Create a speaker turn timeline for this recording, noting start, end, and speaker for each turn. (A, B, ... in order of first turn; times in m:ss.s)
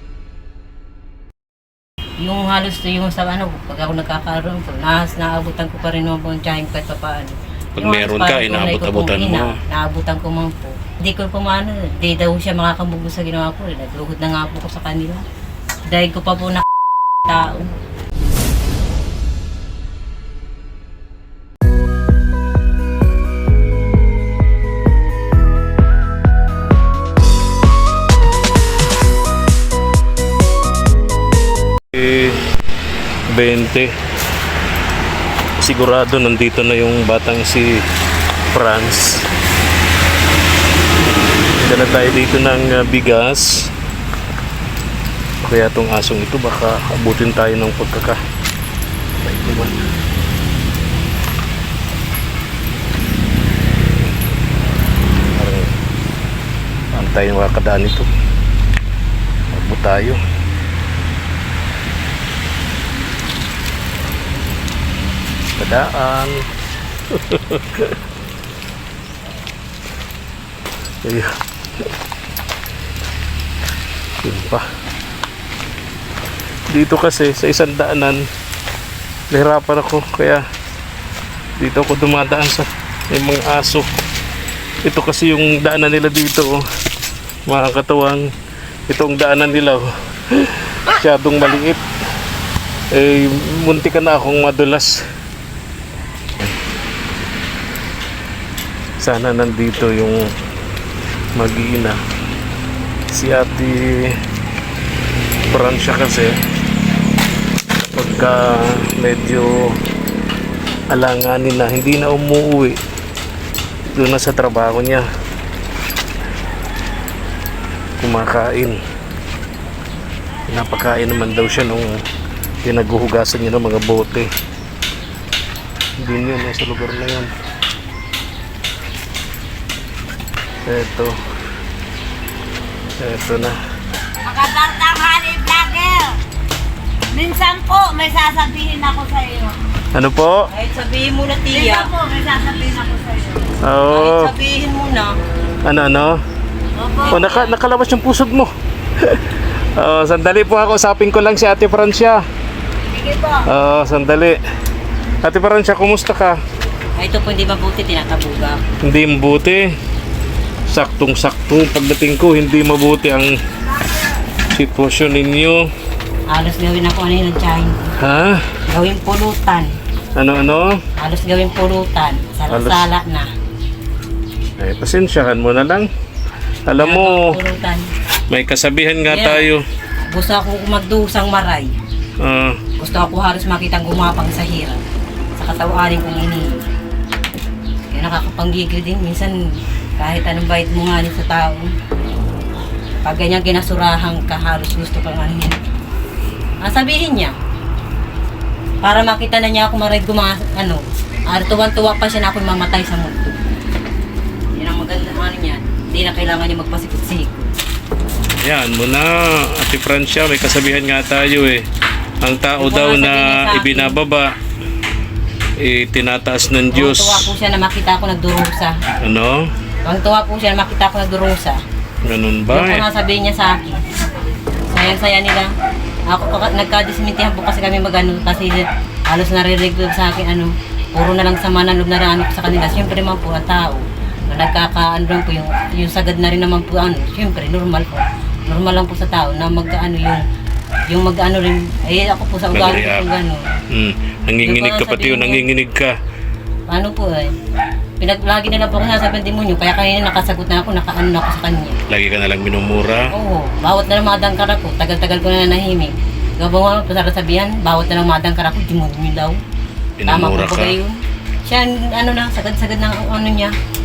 0:02.2-0:15.2 A
0:07.8-0:09.6 B
0:15.9-0:17.8 A
0:31.9-0:32.4 B
0:33.3-0:33.9 B
0:35.6-0:37.8 B
0:38.5-0:39.3 B
0:41.6-0:43.7 B
0:45.4-0:48.2 B
0:49.2-0:49.7 B
0:55.3-0:55.8 B
0:56.9-0:58.1 B
0:59.5-1:00.2 B
1:05.6-1:06.5 B
1:07.1-1:08.0 B
1:11.0-1:11.4 B
1:14.2-1:14.7 B
1:16.7-1:18.3 B
1:19.3-1:20.4 B
1:21.6-1:23.9 B
1:24.8-1:26.6 B
1:27.5-1:28.3 B
1:28.9-1:31.8 B
1:32.9-1:35.1 B
1:39.0-1:40.3 B
1:41.4-1:42.0 B
1:43.1-1:44.2 B
1:45.5-1:46.4 B
1:47.7-1:49.8 B
1:50.9-1:52.8 B
1:54.0-1:55.1 B
1:58.0-1:58.8 B
2:00.5-2:02.0 B
2:02.6-2:04.3 B
2:06.0-2:07.3 B
2:10.6-2:11.2 B
2:13.0-2:13.6 B
2:14.2-2:16.2 C
2:17.1-2:19.6 C
2:19.9-2:20.5 B
2:20.5-2:21.9 A
2:21.5-2:23.5 C
2:23.6-2:24.3 B
2:23.9-2:25.2 A
2:25.6-2:26.2 B
2:26.8-2:27.4 C
2:27.0-2:27.4 A
2:27.1-2:32.3 B
2:32.9-2:33.4 C
2:33.5-2:34.4 B
2:35.2-2:36.4 B
2:37.0-2:38.6 A
2:38.8-2:39.8 B
2:40.7-2:43.4 B
2:44.5-2:45.7 B
2:46.3-2:48.0 A
2:48.0-2:48.6 B
2:48.7-2:49.8 A
2:50.2-2:50.8 B
2:51.0-2:53.3 A
2:52.5-2:52.8 B
2:54.6-2:55.9 B
2:56.6-2:57.4 B
2:56.7-2:57.9 A
2:58.3-2:59.6 B
2:59.1-2:59.5 A
3:00.1-3:01.8 A
3:02.2-3:02.6 B
3:02.8-3:04.8 A
3:05.4-3:06.6 A
3:07.9-3:11.7 A
3:13.0-3:15.6 A
3:16.6-3:17.4 A
3:18.8-3:23.5 A
3:24.5-3:27.5 A
3:28.4-3:31.7 B
3:32.2-3:34.4 B
3:32.6-3:34.0 A
3:35.6-3:37.3 B
3:36.7-3:38.8 A
3:39.0-3:39.5 B
3:39.8-3:41.6 A
3:42.0-3:42.8 B
3:42.5-3:43.9 A
3:44.7-3:45.5 A
3:46.1-4:00.2 A
4:00.9-4:03.5 A
4:02.5-4:03.1 B
4:03.7-4:06.0 B
4:04.4-4:05.5 A
4:06.7-4:07.4 A
4:08.0-4:11.8 A
4:11.9-4:13.1 B
4:13.1-4:19.4 A
4:20.0-4:20.8 B
4:20.1-4:23.6 A